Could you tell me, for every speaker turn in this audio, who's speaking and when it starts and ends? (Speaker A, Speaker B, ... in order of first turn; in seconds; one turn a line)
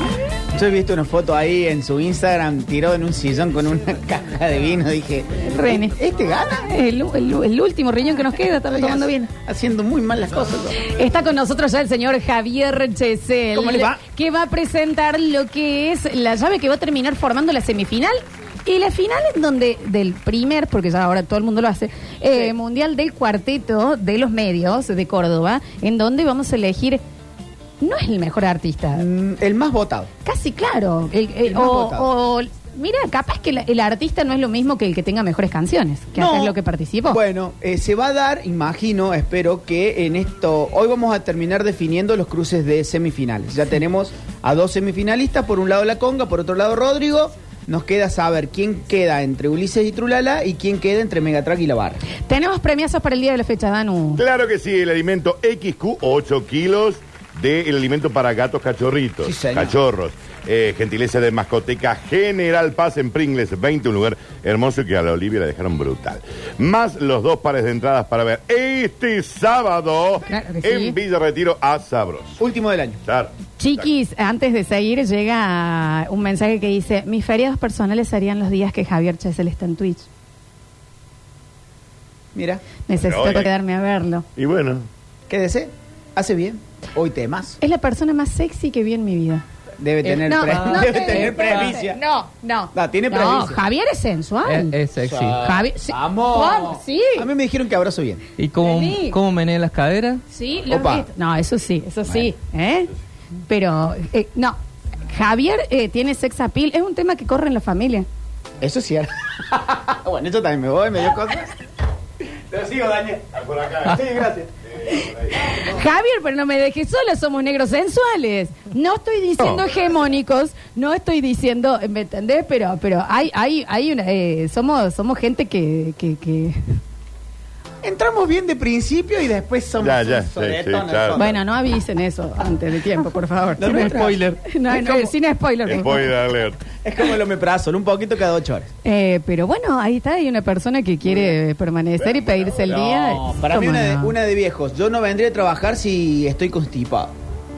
Speaker A: 0.5-6.7
Speaker B: 5.5-6.0
Speaker B: 6.7-9.3
Speaker A: 8.7-10.8
Speaker B: 10.8-27.0
Speaker A: 13.5-14.0
Speaker B: 27.8-29.1
Speaker A: 28.9-30.1
Speaker B: 30.2-37.2
Speaker A: 31.4-32.1
Speaker A: 36.2-36.5
Speaker A: 37.1-52.0
Speaker B: 52.2-54.2
Speaker C: 54.2-72.4
Speaker A: 59.2-59.7
Speaker B: 70.3-71.0
Speaker A: 72.4-73.0
Speaker C: 73.0-73.9
Speaker B: 73.6-80.0
Speaker A: 82.3-82.6
Speaker B: 82.9-84.2
Speaker C: 83.0-83.5
Speaker C: 84.4-84.8
Speaker A: 85.3-87.6
Speaker B: 87.6-89.4
Speaker A: 89.8-92.0
Speaker B: 90.0-97.3
Speaker A: 92.7-93.6
Speaker D: 94.4-95.5
Speaker A: 95.9-98.2
Speaker D: 98.4-100.2
Speaker B: 98.6-99.2
Speaker B: 100.3-102.9
Speaker A: 100.7-101.1
Speaker B: 103.5-104.6
Speaker B: 105.1-108.1
Speaker A: 108.6-111.5
Speaker A: 112.5-113.3
Speaker C: 113.3-114.0
Speaker A: 113.8-114.5
Speaker B: 114.9-126.6
Speaker C: 119.4-119.6
Speaker A: 127.8-131.3
Speaker C: 129.8-131.3
Speaker B: 131.2-136.2
Speaker A: 133.6-135.1
Speaker C: 135.7-136.6
Speaker A: 136.8-138.7
Speaker B: 138.8-144.1
Speaker C: 142.0-142.9
Speaker A: 143.4-147.1